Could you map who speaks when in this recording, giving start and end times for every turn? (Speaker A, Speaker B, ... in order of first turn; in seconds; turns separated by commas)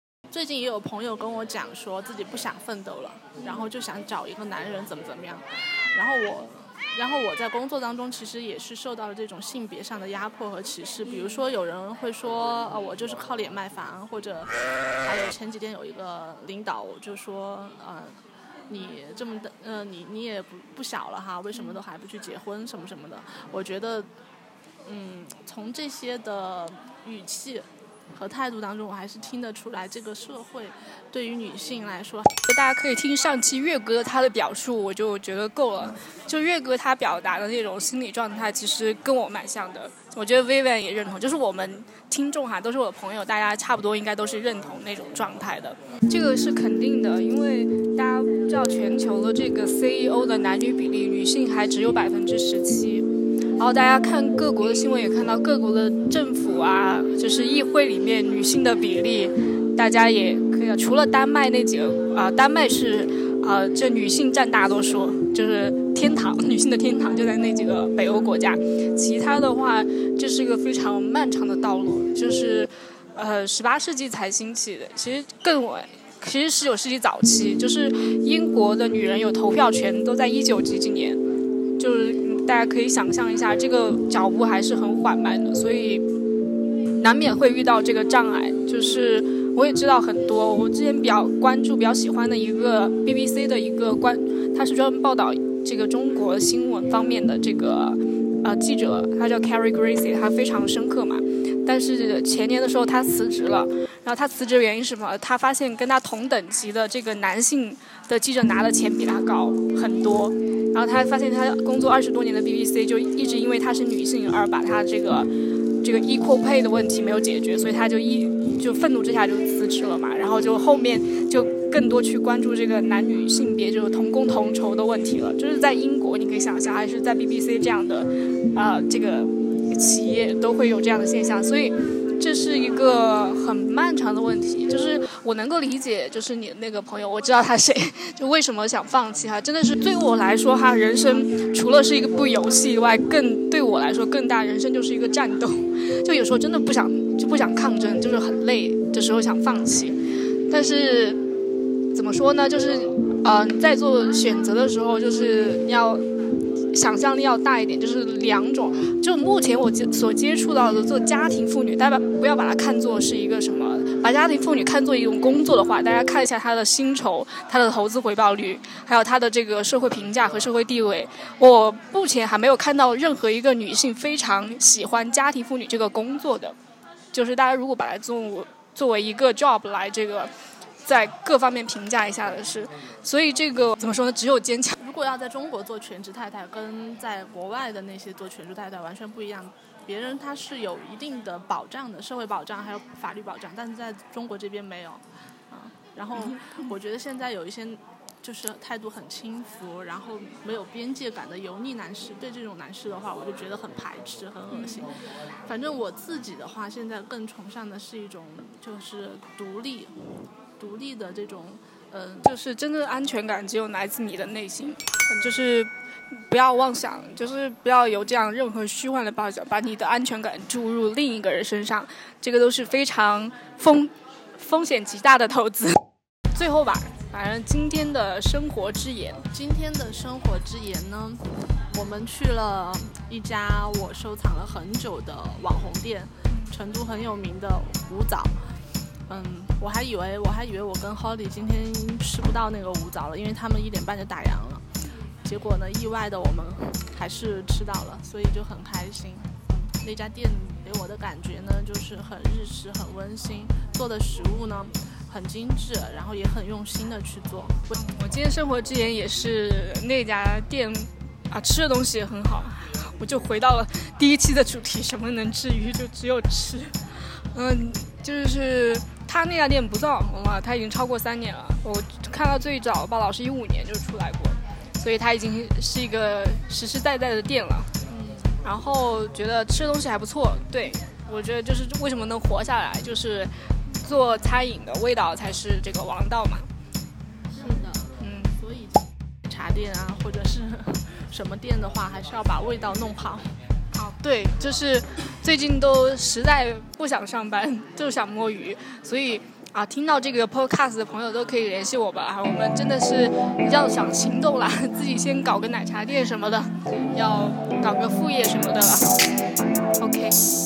Speaker A: 0.3-14.5, Speaker B: 11.1-11.4, Speaker A: 15.0-18.2, Speaker A: 18.7-24.1, Speaker B: 21.5-21.8, Speaker A: 24.9-32.3, Speaker B: 32.5-53.1, Speaker B: 53.6-81.2, Speaker B: 81.8-86.0, Speaker B: 87.0-115.3, Speaker B: 115.8-151.2, Speaker B: 151.9-156.1, Speaker B: 156.7-176.6, Speaker B: 177.1-180.3, Speaker B: 180.8-184.8, Speaker A: 184.8-209.9, Speaker B: 204.5-204.9, Speaker A: 210.6-212.3, Speaker B: 212.3-225.8, Speaker B: 226.3-229.3, Speaker A: 229.3-238.3, Speaker A: 239.1-244.6, Speaker A: 245.2-257.6, Speaker B: 257.7-277.7, Speaker A: 277.9-278.4, Speaker B: 278.4-286.5, Speaker A: 287.4-293.3, Speaker B: 288.0-288.4, Speaker B: 293.7-309.0, Speaker B: 309.8-310.2